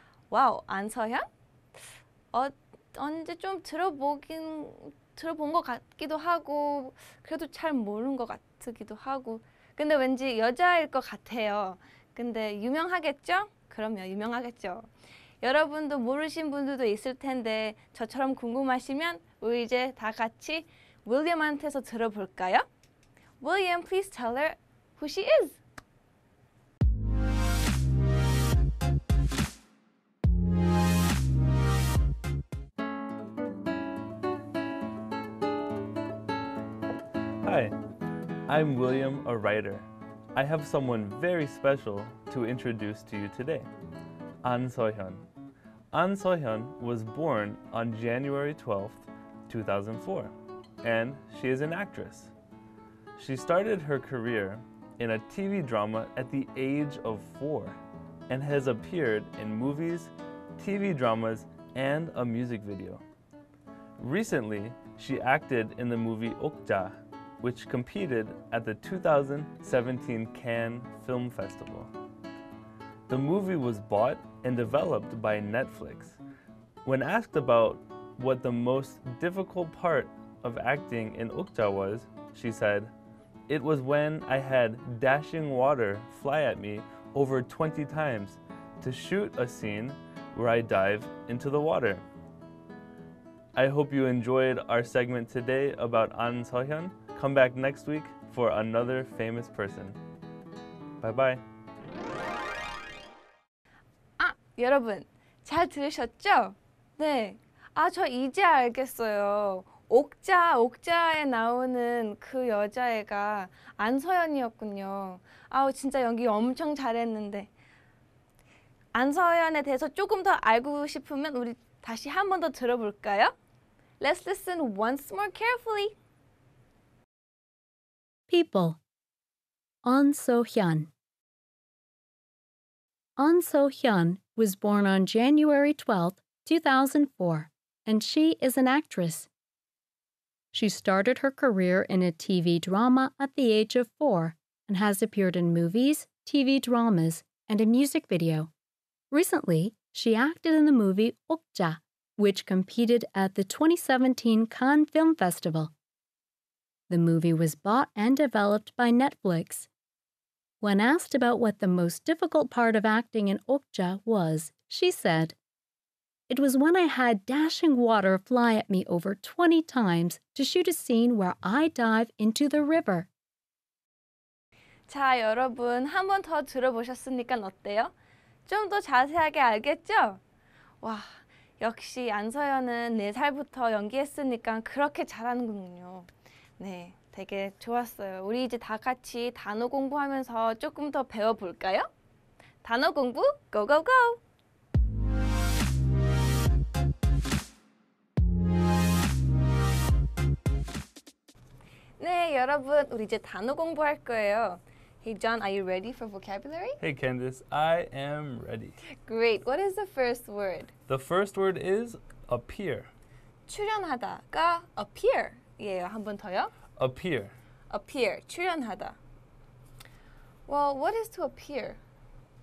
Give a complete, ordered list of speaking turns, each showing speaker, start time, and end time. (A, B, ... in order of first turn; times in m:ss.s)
0:00.3-0:01.3 A
0:02.3-0:14.9 A
0:15.4-0:22.7 A
0:23.4-0:25.6 A
0:37.4-0:37.8 B
0:38.5-0:43.7 B
0:44.4-0:45.2 B
0:45.9-0:52.3 B
0:53.2-0:57.8 B
0:58.3-1:03.0 B
1:04.0-1:11.9 B
1:13.1-1:16.2 B
1:16.8-1:22.9 B
1:23.5-1:32.0 B
1:33.6-1:40.0 B
1:41.0-1:41.4 B
1:44.2-1:57.5 A
1:58.9-2:03.3 A
2:04.0-2:06.0 A
2:08.3-2:08.8 C
2:09.8-2:10.9 C
2:13.2-2:19.3 C
2:20.5-2:28.5 C
2:29.1-2:35.7 C
2:36.9-2:39.7 C
2:40.6-2:45.4 C
2:46.3-2:53.1 C
2:54.9-2:57.9 A
2:58.5-3:00.2 A
3:00.8-3:11.9 A
3:12.6-3:14.2 A
3:22.0-3:26.8 A
3:26.8-3:28.8 B
3:29.0-3:30.7 A
3:30.9-3:32.9 B
3:33.5-3:36.5 A
3:36.8-3:37.3 B
3:37.7-3:39.0 A
3:40.5-3:41.8 A